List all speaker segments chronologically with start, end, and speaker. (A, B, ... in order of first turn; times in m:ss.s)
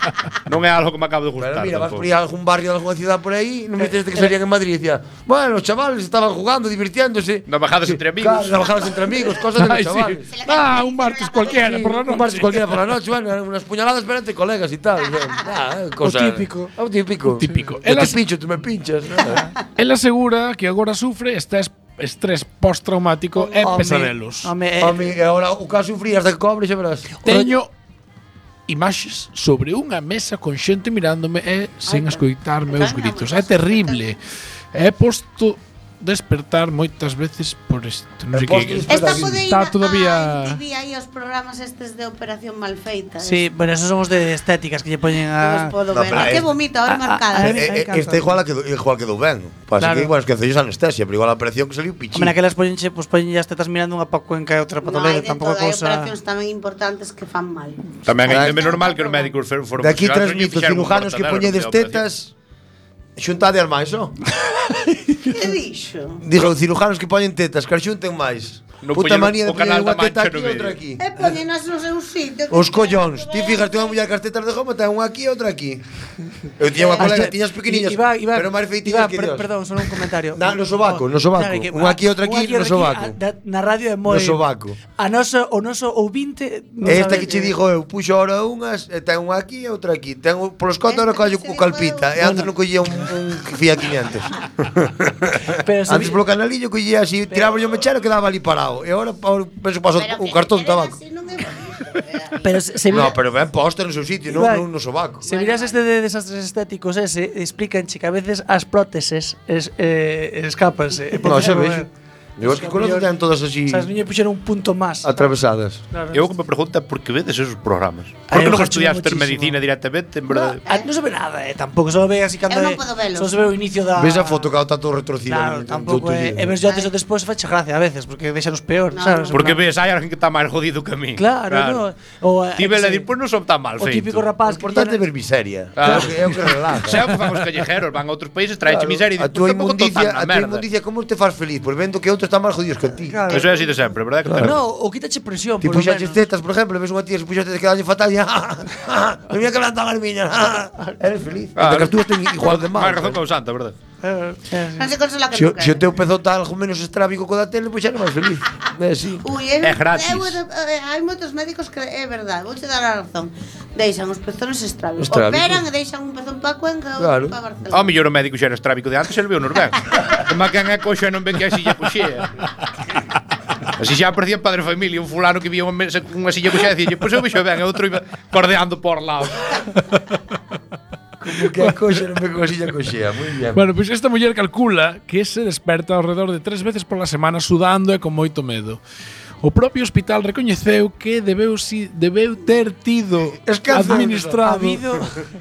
0:00.4-0:02.1 A
0:01.4-0:10.2 B
0:07.5-0:08.9 A
0:09.5-0:12.6 C
0:10.3-0:11.9 D
0:11.5-0:19.5 B
0:16.0-0:16.7 E
0:17.4-0:18.2 C
0:19.8-0:24.5 C
0:23.3-0:25.0 E
0:24.8-0:27.2 B
0:27.2-0:27.7 C
0:28.7-0:34.2 C
0:31.9-0:34.0 D
0:34.7-0:40.6 C
0:38.3-0:39.4 B
0:38.9-0:43.4 D
0:43.2-0:48.3 E
0:45.4-0:47.6 D
0:45.9-0:46.5 B
0:47.3-0:52.3 B
0:49.8-0:50.1 E
0:52.1-0:56.1 E
0:54.8-0:59.3 D
0:58.0-1:02.0 A
0:58.2-0:58.7 B
0:59.8-1:02.3 B
1:03.2-1:04.2 B
1:05.2-1:06.2 D
1:06.2-1:11.0 B
1:08.8-1:10.8 A
1:11.0-1:14.0 D
1:12.5-1:15.8 B
1:16.6-1:19.5 B
1:17.0-1:24.4 E
1:20.3-1:23.2 B
1:24.0-1:24.8 B
1:25.0-1:27.6 E
1:26.8-1:41.0 B
1:30.9-1:32.2 D
1:32.2-1:32.5 E
1:35.6-1:36.2 E
1:40.0-1:43.1 D
1:42.4-1:43.1 E
1:42.9-1:45.2 B
1:44.3-1:44.7 E
1:45.2-1:51.9 E
1:45.2-1:45.8 D
1:51.2-1:51.9 B
1:52.4-1:53.9 B
1:52.4-1:53.1 E
1:53.7-1:55.2 E
1:55.0-1:55.8 B
1:55.9-1:56.2 E
1:56.1-2:00.6 A
1:58.3-1:59.6 E
2:00.3-2:04.5 E
2:02.5-2:03.5 D
2:03.9-2:06.6 B
2:05.3-2:09.6 E
2:06.6-2:06.9 D
2:08.9-2:09.4 D
2:09.3-2:11.8 A
2:11.2-2:13.0 E
2:12.6-2:14.3 A
2:13.8-2:15.0 E
2:14.4-2:17.1 B
2:15.8-2:20.6 A
2:18.7-2:23.3 B
2:23.1-2:26.2 E
2:23.3-2:24.6 A
2:24.2-2:24.6 B
2:25.6-2:33.2 B
2:31.6-2:33.7 A
2:34.0-2:34.9 E
2:34.8-2:35.9 D
2:35.3-2:39.3 B
2:39.2-2:47.9 D
2:39.6-2:40.4 A
2:45.0-2:45.7 B
2:47.0-2:47.4 B
2:47.7-2:52.3 A
2:53.8-2:59.6 A
3:01.2-3:03.6 B
3:03.5-3:08.8 C
3:09.4-3:14.8 C
3:13.4-3:14.4 B
3:13.8-3:15.1 E